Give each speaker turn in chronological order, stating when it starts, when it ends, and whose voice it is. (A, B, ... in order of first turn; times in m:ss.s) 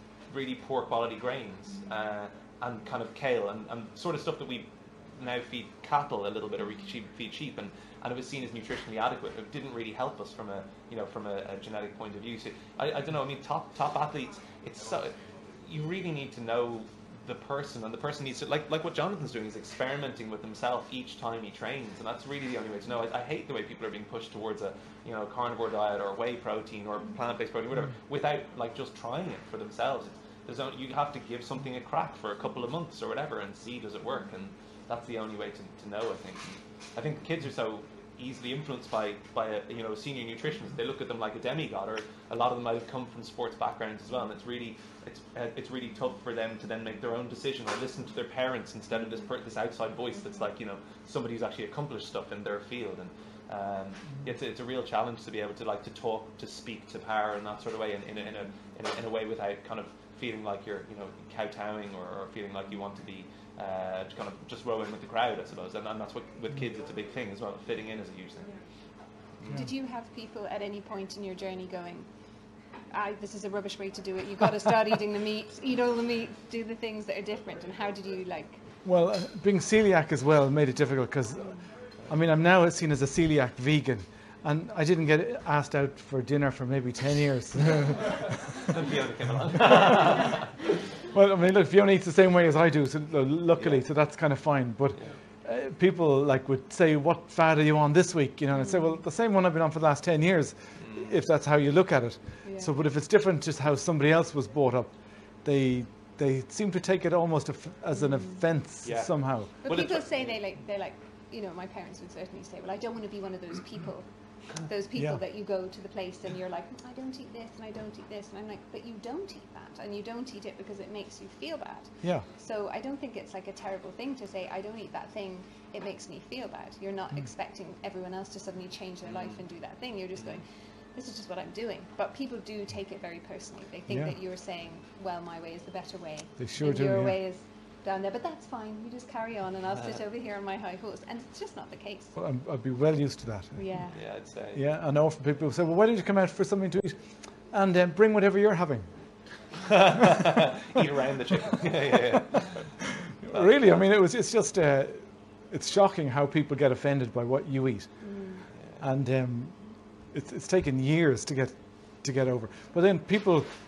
0:00.3-1:08.5 A
1:09.4-1:09.7 A
1:09.5-1:12.1 B
1:12.9-1:18.6 B
1:18.8-1:21.6 C
1:22.1-1:28.1 C
1:28.6-1:30.5 A
1:31.1-1:44.9 C
1:33.6-1:33.8 A
1:38.6-1:39.0 B
1:40.8-1:41.1 A
1:42.4-1:42.7 B
1:45.4-1:49.5 C
1:48.0-1:48.4 B
1:48.8-1:50.4 A
1:49.6-1:54.1 B
1:54.6-2:22.2 B
2:09.1-2:09.4 A
2:13.9-2:14.2 C
2:16.4-2:17.2 C
2:22.2-2:23.6 C
2:23.6-2:24.0 B
2:23.9-2:24.6 A
2:24.5-2:27.0 C
2:27.5-2:28.9 C
2:29.6-2:32.5 A
2:33.2-2:37.9 C
2:38.0-2:38.4 B
2:38.8-2:39.6 C
2:40.1-2:43.5 C